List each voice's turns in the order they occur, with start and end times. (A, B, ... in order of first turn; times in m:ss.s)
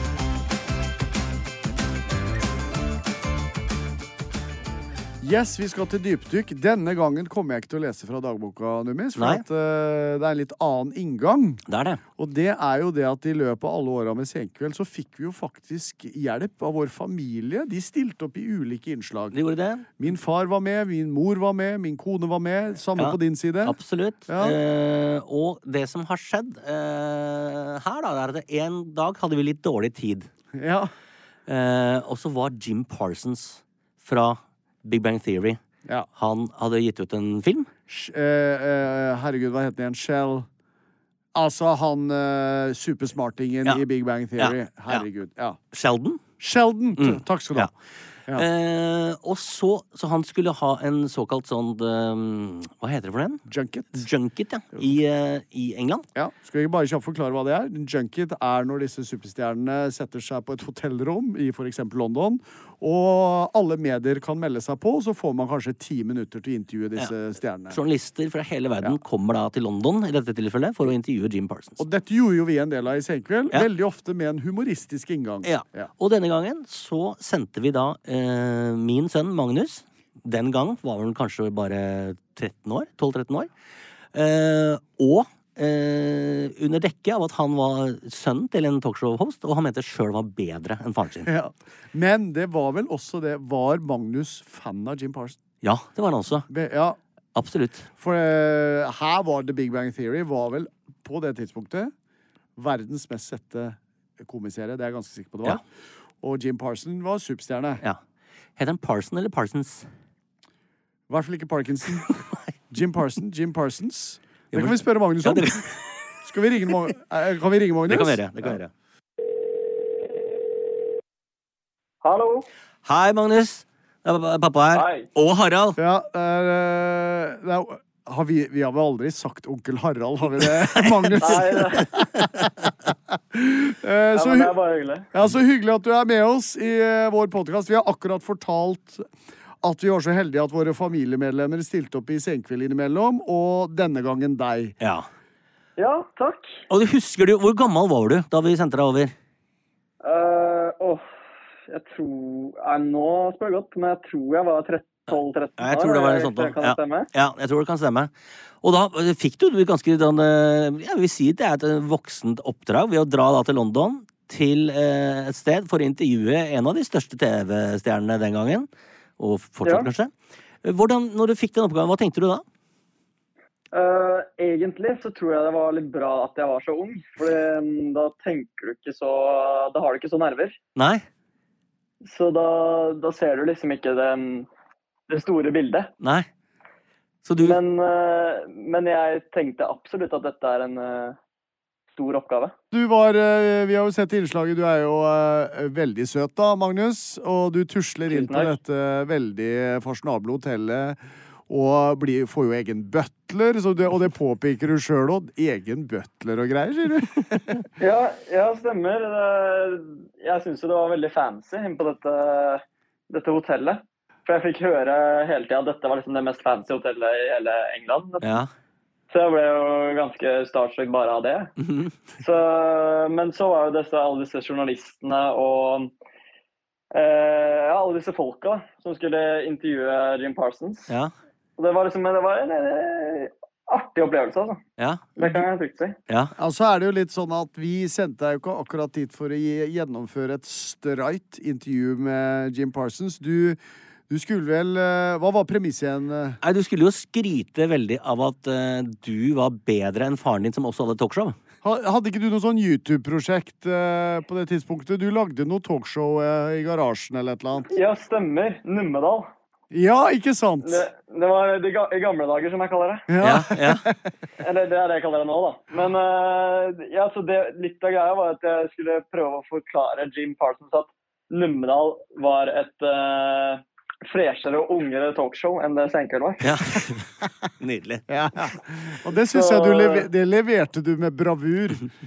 0:05.2-0:11.6 A
0:09.2-0:09.4 B
0:11.7-0:12.0 B
0:12.2-0:19.4 A
0:19.3-0:19.9 B
0:20.0-0:23.8 A
0:23.0-0:30.3 B
0:24.3-0:24.6 A
0:30.5-0:30.9 A
0:31.5-0:35.6 B
0:36.2-0:37.7 B
0:37.9-0:40.5 A
0:41.3-0:45.6 A
0:44.4-0:45.0 B
0:45.7-0:46.2 B
0:46.4-0:47.7 A
0:47.0-0:47.7 B
0:48.3-0:53.4 B
0:53.5-0:54.0 A
0:53.9-0:56.0 B
0:56.1-1:07.8 A
1:07.7-1:11.8 B
1:11.8-1:15.9 A
1:15.4-1:23.5 B
1:24.1-1:31.3 B
1:31.2-1:35.4 A
1:35.6-1:36.5 B
1:36.5-1:37.0 A
1:37.3-1:37.9 B
1:38.0-1:41.9 A
1:42.6-1:45.6 A
1:46.2-1:47.8 A
1:48.6-1:49.9 B
1:51.1-1:52.1 A
1:52.7-1:58.6 A
1:54.5-1:55.9 B
1:57.9-1:58.7 B
2:02.0-2:02.5 C
2:02.8-2:05.8 B
2:04.7-2:05.1 C
2:05.8-2:12.5 A
2:10.4-2:11.4 B
2:11.2-2:11.9 C
2:13.1-2:14.5 A
2:14.1-2:15.1 C
2:15.1-2:19.0 A
2:19.6-2:24.8 A
2:24.8-2:25.1 B
2:25.8-2:26.6 C
2:26.7-2:29.1 B
2:30.0-2:31.0 C
2:31.7-2:37.1 C
2:35.1-2:38.1 B
2:38.6-2:48.7 B
2:49.2-2:50.1 B
2:49.6-2:49.9 C
2:50.6-2:52.4 B
2:53.7-3:00.6 C
3:00.8-3:01.0 B
3:02.0-3:04.5 C
3:05.1-3:05.9 C
3:06.0-3:06.3 B
3:07.2-3:07.6 B
3:07.4-3:11.2 C
3:11.9-3:12.5 C
3:12.7-3:27.6 A
3:18.1-3:18.5 C
3:27.8-3:38.4 C
3:38.2-3:38.5 B
3:39.1-3:41.5 C
3:41.6-3:41.9 B
3:42.2-3:45.9 C
3:46.9-3:50.9 C
3:51.6-3:54.6 C
3:54.8-3:55.2 B
3:55.2-3:56.0 C
3:56.1-3:56.3 B
3:56.4-4:06.4 A
4:06.4-4:11.4 B
4:11.6-4:17.7 A
4:17.7-4:19.3 C
4:19.7-4:20.8 A
4:20.6-4:23.1 C
4:23.1-4:24.0 A
4:23.2-4:23.8 B
4:24.4-4:36.5 C
4:36.4-4:37.0 B
4:37.6-4:38.0 B
4:38.1-4:41.8 A
4:39.3-4:40.1 C